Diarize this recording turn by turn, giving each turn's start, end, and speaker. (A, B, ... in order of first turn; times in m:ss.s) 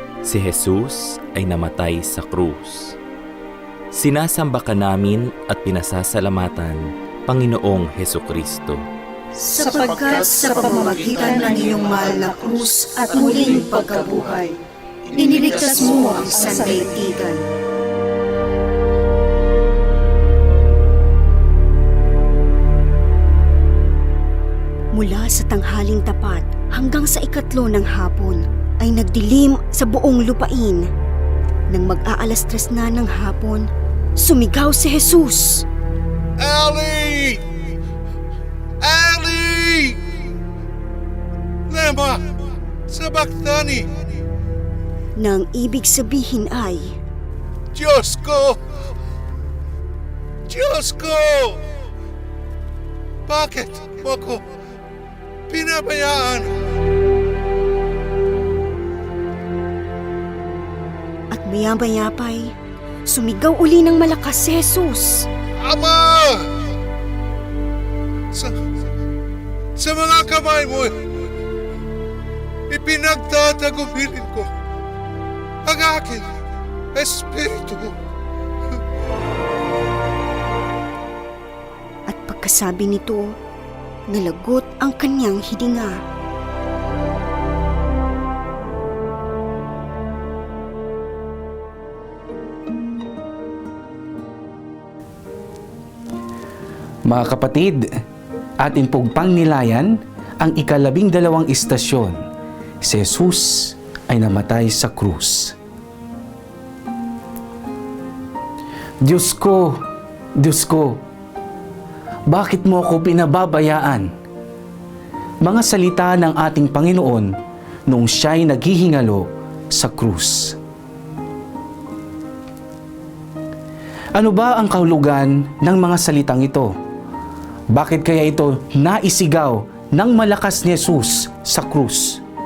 0:00.2-0:03.0 A
0:03.9-0:08.8 A
0:09.4-0:14.6 B
0:15.1-0:17.4 B
0:24.9-0:30.9 B
0:31.7-0:35.6 B
0:36.4-0:37.5 C
0:38.8-0:40.0 C
0:41.7-0:44.0 C
0:45.2-0:47.0 B
0:47.7-0:48.8 C
0:50.5-0:51.7 C
0:53.3-0:54.4 C
0:55.5-0:56.6 C
1:01.3-1:02.5 B
1:03.1-1:05.3 B
1:05.6-1:06.6 C
1:08.3-1:08.6 C
1:09.8-1:11.1 C
1:12.7-1:14.5 C
1:15.6-1:16.3 C
1:16.9-1:18.0 C
1:22.1-1:23.4 B
1:24.1-1:26.0 B
1:37.0-1:37.9 D
1:38.6-1:42.2 D
1:42.8-1:45.6 D
1:49.0-1:49.8 D
1:50.4-1:51.0 D
1:52.3-1:54.1 D
1:55.4-1:57.3 D
1:57.9-2:00.6 D
2:04.2-2:06.7 D
2:07.7-2:12.2 D